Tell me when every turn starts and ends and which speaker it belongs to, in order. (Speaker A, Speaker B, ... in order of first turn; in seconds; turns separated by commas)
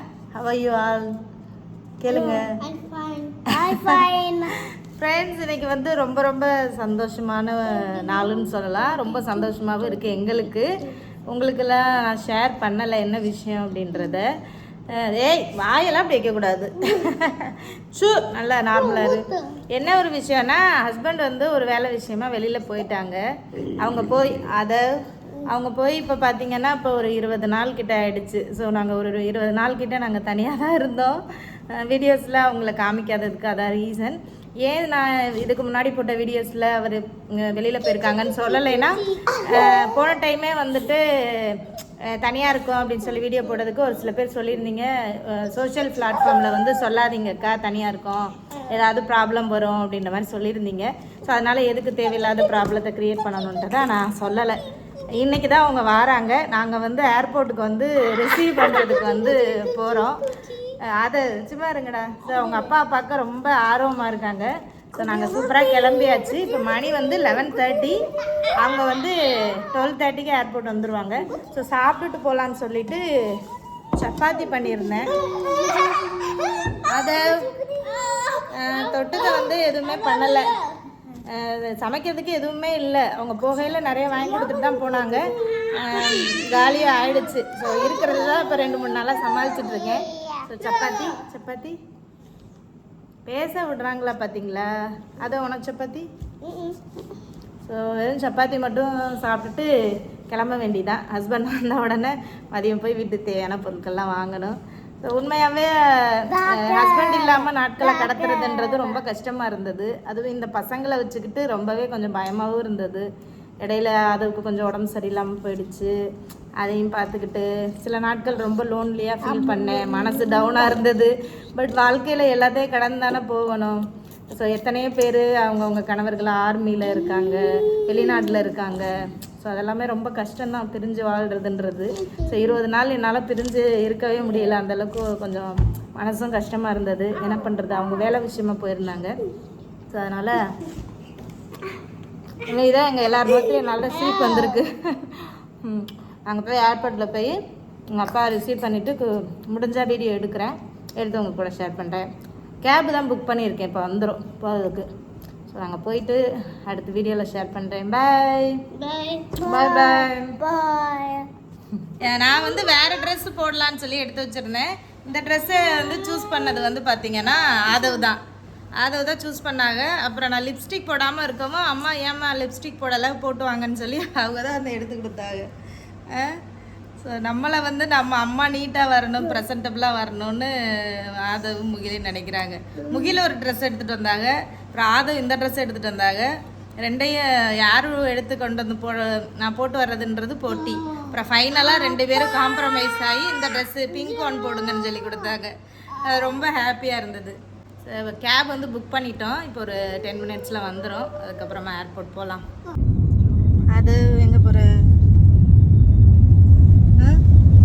Speaker A: 0.3-1.1, Speaker A: 2.0-2.5, Speaker B: 2.1-4.6, Speaker A: 3.6-4.0, Speaker A: 5.0-10.6, Speaker B: 7.8-10.5, Speaker A: 11.3-14.2, Speaker A: 14.9-23.2, Speaker B: 18.8-19.6, Speaker A: 23.7-31.2, Speaker A: 31.8-54.6, Speaker B: 38.3-39.9, Speaker A: 55.2-60.2, Speaker B: 58.6-60.7, Speaker A: 60.9-68.0, Speaker B: 62.3-62.7, Speaker B: 65.0-66.5, Speaker A: 68.6-73.0, Speaker A: 74.0-75.1, Speaker B: 75.0-80.8, Speaker A: 76.9-77.5, Speaker A: 78.5-80.5, Speaker A: 81.3-91.8, Speaker B: 84.1-91.2, Speaker A: 93.2-96.0, Speaker B: 96.4-97.0, Speaker A: 97.6-99.7, Speaker A: 100.3-113.0, Speaker B: 106.3-109.0, Speaker A: 113.6-115.9, Speaker A: 116.6-123.8, Speaker B: 119.2-120.7, Speaker A: 124.3-139.2, Speaker B: 127.2-128.4, Speaker A: 139.9-140.4, Speaker A: 142.4-147.4, Speaker B: 144.0-144.6, Speaker A: 147.9-152.1, Speaker A: 152.6-154.9, Speaker A: 155.5-158.5, Speaker B: 158.8-161.3, Speaker A: 159.4-160.3, Speaker A: 162.0-168.2, Speaker B: 162.6-162.8, Speaker B: 165.7-166.5, Speaker A: 168.8-175.5, Speaker A: 176.1-176.4, Speaker A: 177.0-202.4, Speaker B: 190.6-191.1, Speaker B: 191.7-192.5, Speaker B: 194.0-195.0, Speaker A: 203.7-204.7